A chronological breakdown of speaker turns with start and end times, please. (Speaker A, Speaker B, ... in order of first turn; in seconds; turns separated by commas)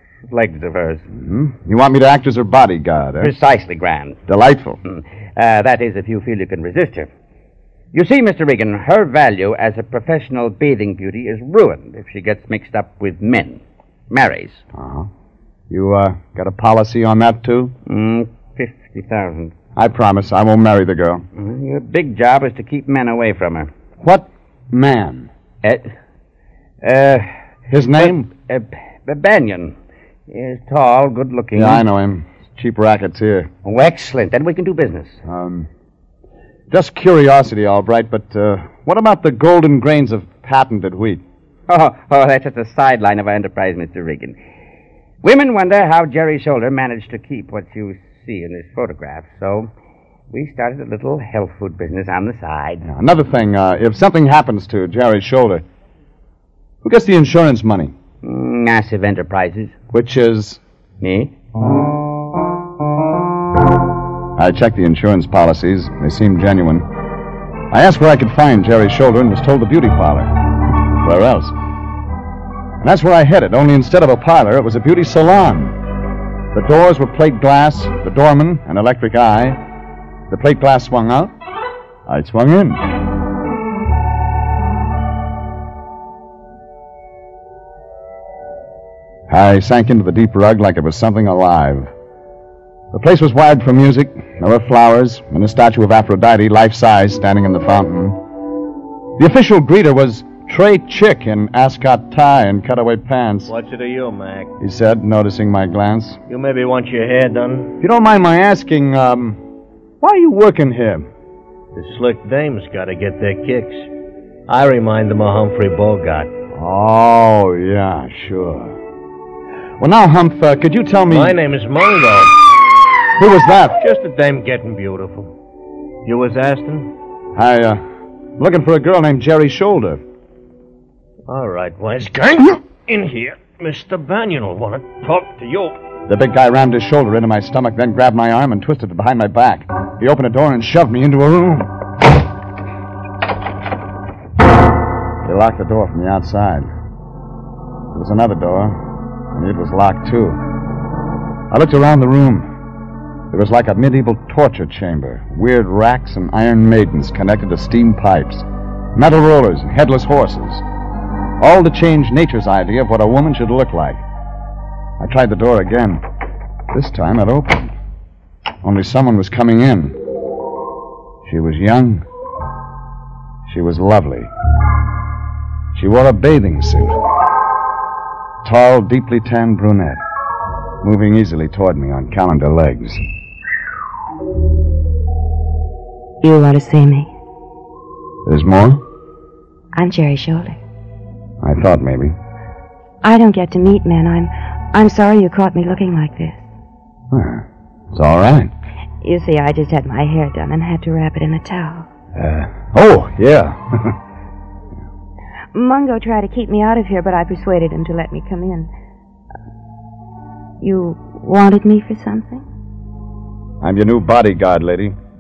Speaker A: 0.3-1.0, Speaker B: 1.1-3.3, Speaker A: 3.2-4.2, Speaker B: 4.3-4.8, Speaker A: 4.8-7.1, Speaker A: 7.9-14.6, Speaker B: 14.7-15.1, Speaker B: 15.7-17.7, Speaker A: 17.9-19.5, Speaker B: 19.8-21.2, Speaker A: 21.4-23.7, Speaker B: 24.0-25.3, Speaker A: 25.6-25.9, Speaker A: 26.8-27.3, Speaker B: 27.7-28.3, Speaker A: 27.9-29.8, Speaker A: 30.3-31.9, Speaker B: 31.6-33.5, Speaker A: 33.6-35.2, Speaker B: 35.2-35.7, Speaker B: 36.7-41.2, Speaker A: 41.7-44.4, Speaker A: 45.2-49.7, Speaker A: 50.3-52.9, Speaker B: 52.8-55.6, Speaker B: 56.8-57.9, Speaker A: 58.2-59.8, Speaker B: 59.9-60.6, Speaker A: 61.0-61.3, Speaker B: 64.4-66.9, Speaker B: 67.7-70.3, Speaker B: 71.0-71.5, Speaker B: 72.8-75.8, Speaker B: 76.5-79.6, Speaker B: 80.3-81.3, Speaker B: 82.1-82.8, Speaker B: 89.3-91.9, Speaker B: 92.9-98.2, Speaker B: 99.2-103.5, Speaker C: 103.5-104.5, Speaker B: 104.6-106.2, Speaker C: 106.3-107.8, Speaker B: 107.8-109.4, Speaker B: 110.0-111.1, Speaker C: 111.8-113.9, Speaker C: 114.5-116.3, Speaker B: 116.5-118.8, Speaker B: 119.8-121.4, Speaker C: 121.1-122.4, Speaker B: 123.2-123.8, Speaker C: 123.8-125.3, Speaker C: 126.0-126.9, Speaker B: 127.4-127.8, Speaker B: 128.4-130.0, Speaker C: 131.3-135.8, Speaker B: 136.1-141.7, Speaker B: 145.2-146.7, Speaker B: 147.9-148.8, Speaker B: 149.3-150.4, Speaker B: 151.5-152.5, Speaker B: 153.3-160.6, Speaker B: 161.4-164.0, Speaker B: 165.0-166.0, Speaker B: 166.7-167.8, Speaker B: 168.6-170.0, Speaker B: 171.2-172.1, Speaker B: 173.5-174.3, Speaker B: 175.7-177.0, Speaker B: 178.4-180.0, Speaker B: 180.8-183.0, Speaker D: 186.2-187.1, Speaker B: 188.2-188.8, Speaker D: 189.7-190.6, Speaker B: 191.4-192.2, Speaker D: 193.0-196.5, Speaker B: 197.1-198.5, Speaker D: 199.0-201.9, Speaker B: 202.2-204.0, Speaker D: 205.5-208.7, Speaker D: 210.6-212.4, Speaker B: 213.6-215.0